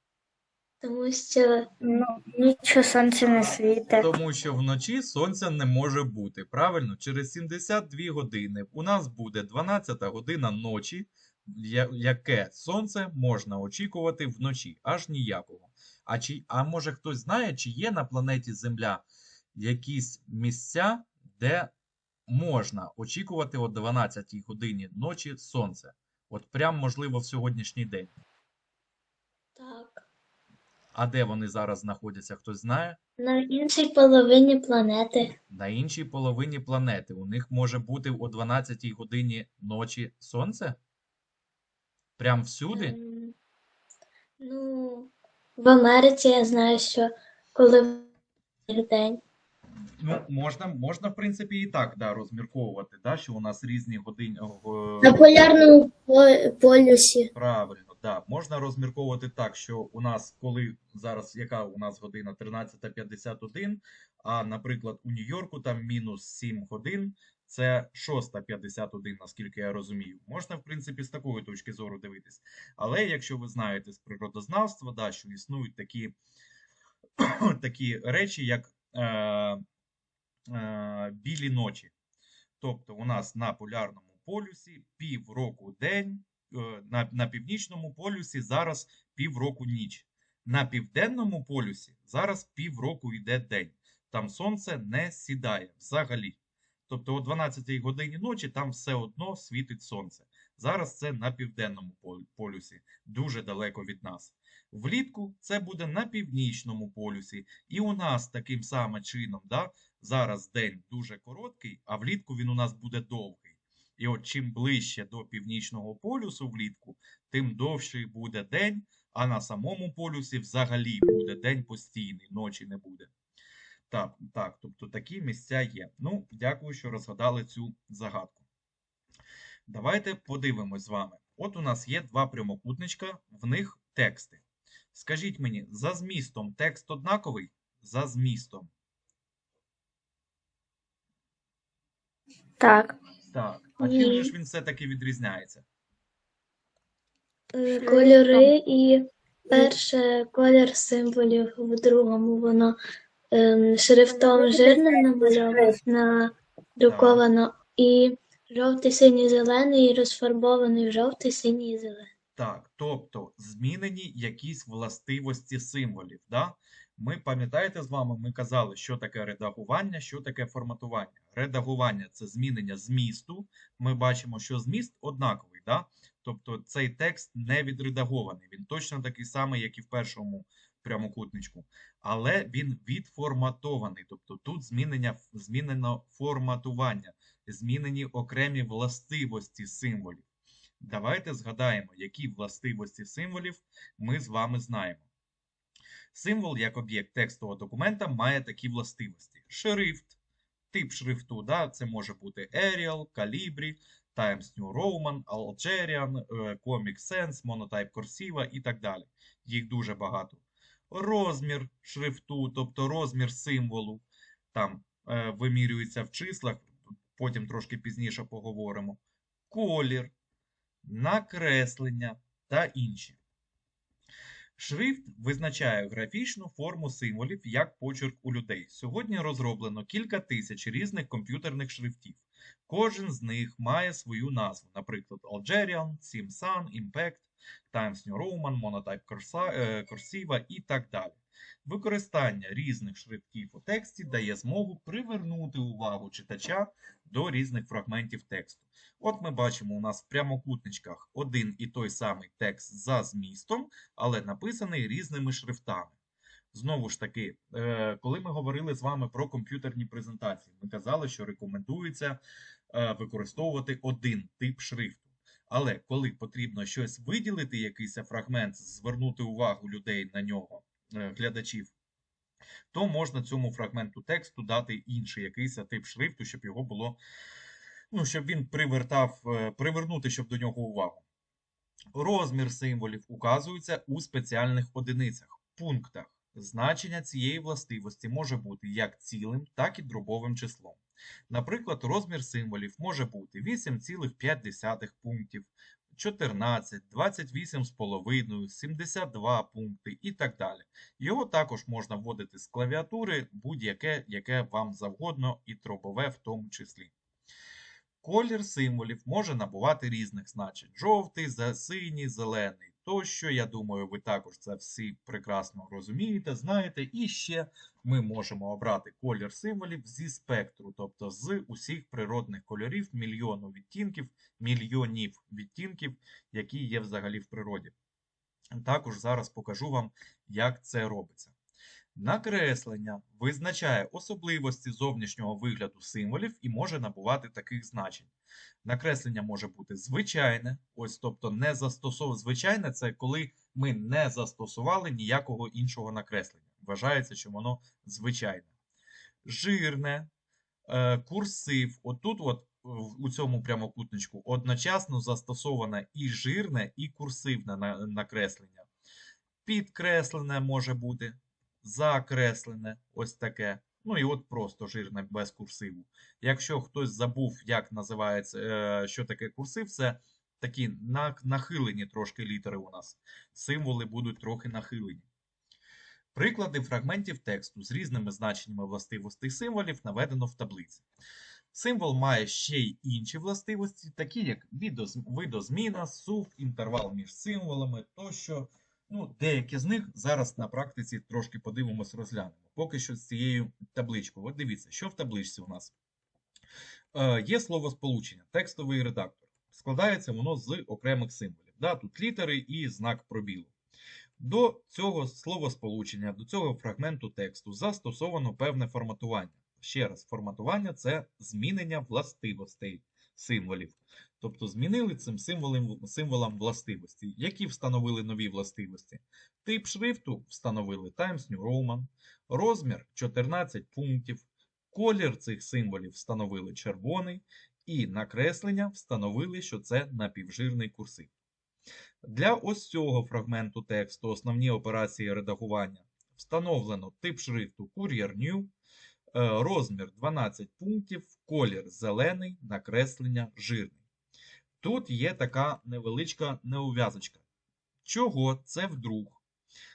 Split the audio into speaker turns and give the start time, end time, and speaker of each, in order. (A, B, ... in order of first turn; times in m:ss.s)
0:00.8-0:01.7 A
0:01.8-0:04.1 B
0:03.9-0:21.7 C
0:22.3-0:28.1 C
0:29.6-0:30.0 A
0:30.9-0:33.0 C
0:33.2-0:35.3 A
0:35.5-0:40.8 C
0:42.2-0:43.0 C
0:42.7-0:43.3 A
0:44.4-0:48.1 A
0:48.7-0:49.2 A
0:50.0-0:55.2 C
0:55.0-0:57.3 A
0:57.3-1:16.1 C
1:17.2-1:19.6 C
1:20.5-1:21.9 C
1:22.6-2:03.1 C
2:03.9-2:08.4 C
2:09.7-2:14.4 C
2:14.9-2:18.7 C
2:22.6-2:23.0 B
2:23.3-2:25.6 C
2:23.8-2:24.2 A
2:27.5-2:32.8 A
2:27.6-2:28.5 B
2:33.3-2:42.1 A
2:34.1-2:35.8 B
2:36.9-2:37.2 C
2:42.4-3:10.2 C
3:10.8-3:15.0 C
3:16.1-3:20.1 C
3:20.7-3:39.0 C
3:39.5-3:40.1 C
3:40.8-3:43.2 C
3:44.6-4:15.9 C
4:16.5-4:22.2 C
4:22.7-4:31.7 C
4:32.7-4:37.0 C
4:37.9-4:41.0 C
4:41.9-5:06.9 C
5:08.0-5:27.7 C
5:28.5-5:31.3 C
5:31.9-5:38.1 C
5:38.6-5:48.5 C
5:49.2-5:50.1 C
5:50.7-5:58.7 C
5:59.4-6:15.0 C
6:16.1-6:20.8 C
6:21.5-6:35.7 C
6:36.9-6:43.5 C
6:44.2-7:11.1 C
7:12.0-7:18.5 C
7:19.1-7:23.8 C
7:24.6-7:27.2 C
7:27.8-7:29.2 C